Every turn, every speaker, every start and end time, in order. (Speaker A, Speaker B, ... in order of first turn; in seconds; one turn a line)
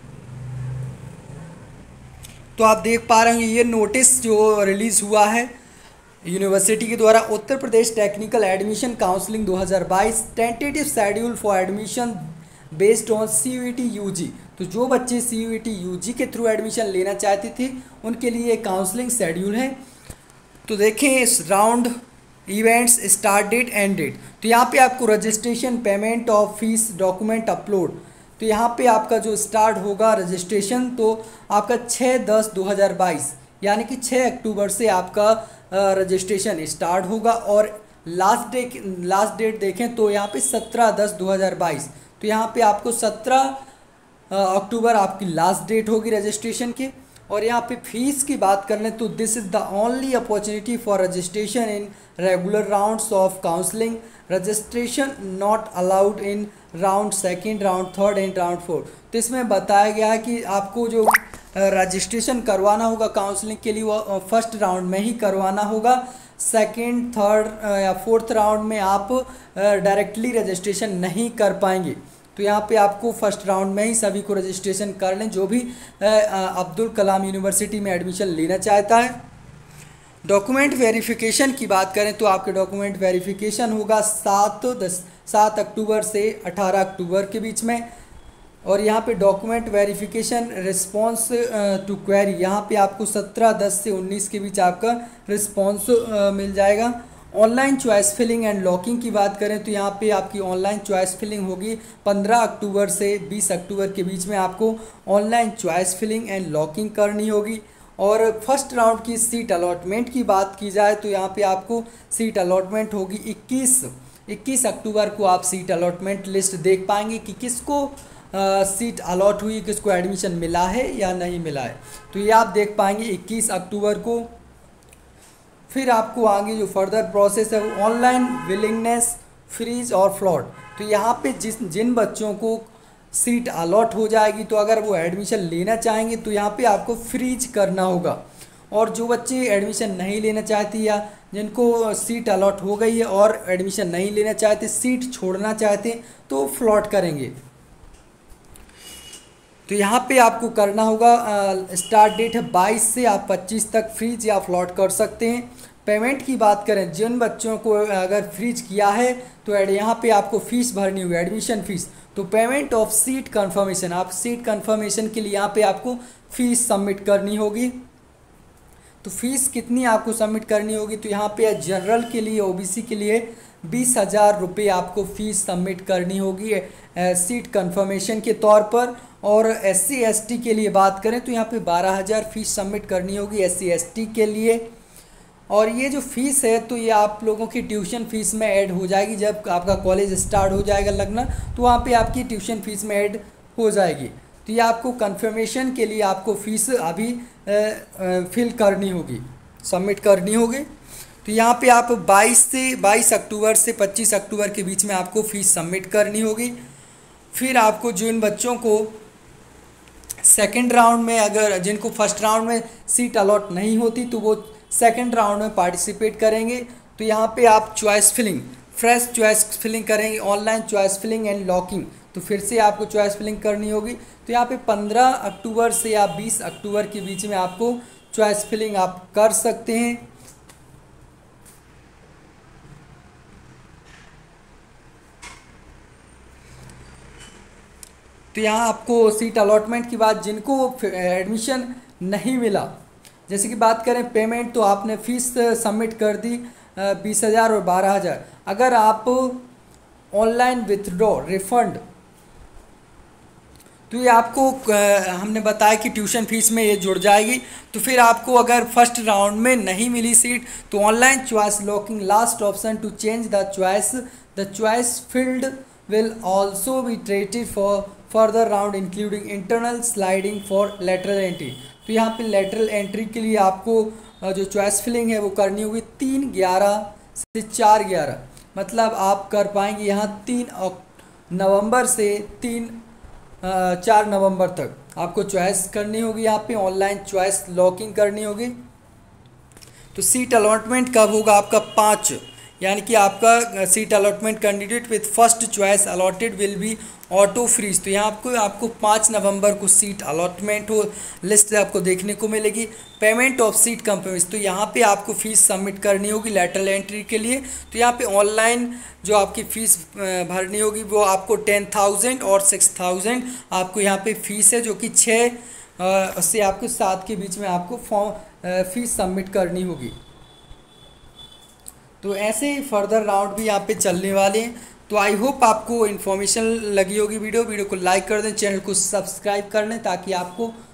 Speaker A: 2.6-5.5
Speaker A: 6.2-19.8
Speaker A: 20.6-21.9
Speaker A: 22.5-43.6
Speaker A: 44.3-79.2
Speaker A: 80.2-87.8
Speaker A: 88.6-124.3
Speaker A: 125.7-138.2
Speaker A: 138.7-147.3
Speaker A: 149.7-167.8
Speaker A: 169.0-184.7
Speaker A: 185.5-200.7
Speaker A: 201.2-206.6
Speaker A: 207.3-209.0
Speaker A: 210.2-230.0
Speaker A: 238.3-242.7
Speaker A: 243.3-249.4
Speaker A: 250.1-251.8
Speaker A: 253.9-282.8
Speaker A: 283.4-288.6
Speaker A: 289.9-319.9
Speaker A: 322.0-330.5